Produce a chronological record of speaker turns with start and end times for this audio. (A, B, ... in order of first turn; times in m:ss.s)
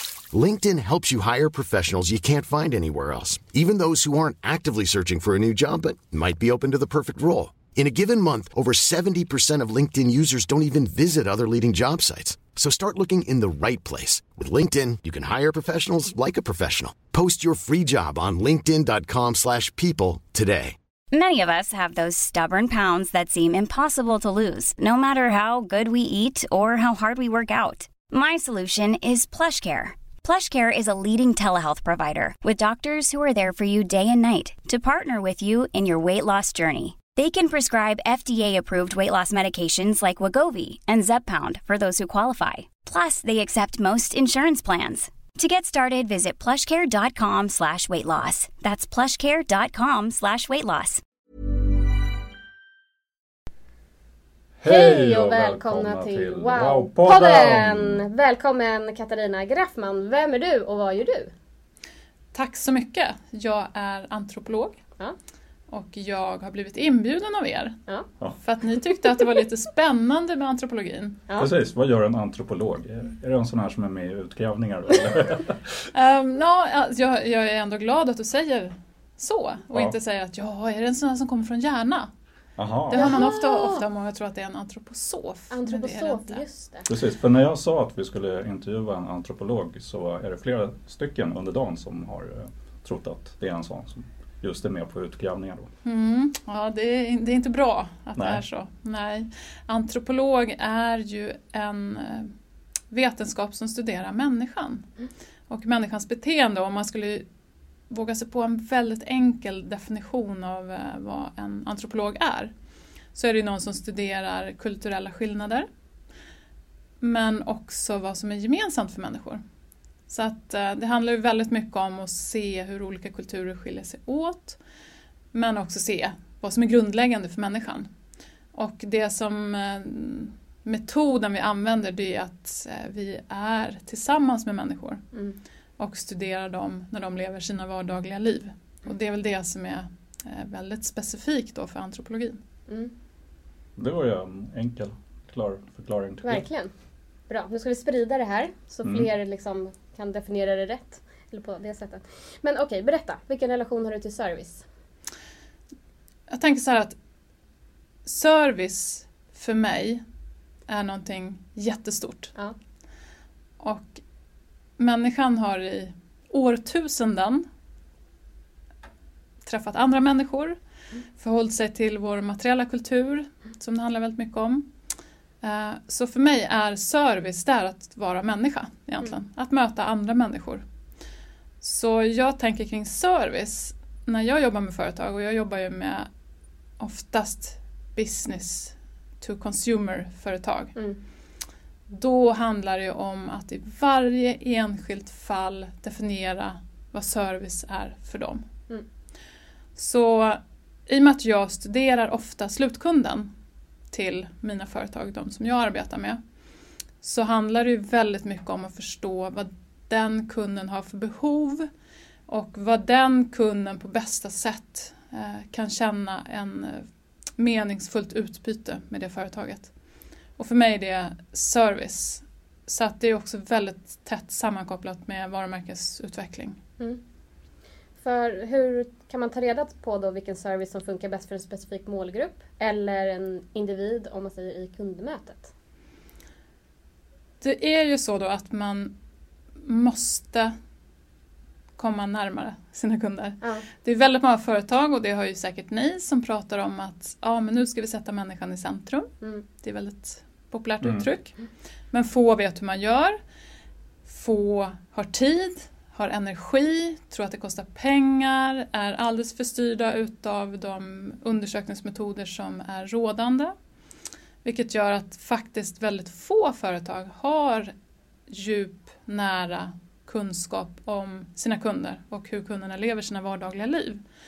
0:00.3-0:20.8 A
0:21.1-0:51.0 B
0:54.6-0:58.0 C
0:54.6-1:01.3 D
1:02.3-1:04.8 E
1:05.7-1:07.8 E
1:08.4-1:11.2 E
1:11.4-1:15.8 C
1:15.9-1:22.1 E
1:22.6-1:23.2 C
1:22.9-1:26.4 E
1:22.9-1:23.8 D
1:25.5-1:26.9 D
1:26.9-1:35.7 C
1:35.8-1:42.3 E
1:38.1-1:38.4 C
1:42.9-1:44.9 E
1:45.5-1:47.2 E
1:47.9-1:52.5 E
1:53.1-1:55.7 E
1:57.0-1:59.4 E
2:00.1-2:04.6 E
2:05.3-2:07.9 E
2:08.5-2:15.0 E
2:15.8-2:22.4 E
2:23.8-2:26.4 C
2:26.2-2:26.7 D
2:27.3-2:34.6 D
2:28.8-2:29.1 C
2:36.3-2:36.9 E
2:38.0-2:40.0 E
2:40.7-2:42.3 E
2:43.6-2:44.0 E
2:44.8-2:47.4 E
2:49.4-2:50.6 E
2:51.2-2:54.7 E
2:55.4-3:00.6 E
3:01.6-3:06.1 E
3:06.8-3:10.7 E
3:11.9-3:18.4 E
3:19.8-3:23.3 E
3:23.9-3:26.2 E
3:27.0-3:31.7 E
3:32.3-3:36.9 E
3:37.4-3:39.7 E
3:40.4-3:46.6 E
3:48.0-3:55.5 D
3:57.4-3:58.9 E
3:59.6-4:00.5 E
4:01.8-4:11.4 E
4:10.8-4:11.1 C
4:11.9-4:13.2 E
4:14.0-4:23.5 E
4:24.4-4:27.7 E
4:28.3-4:34.0 E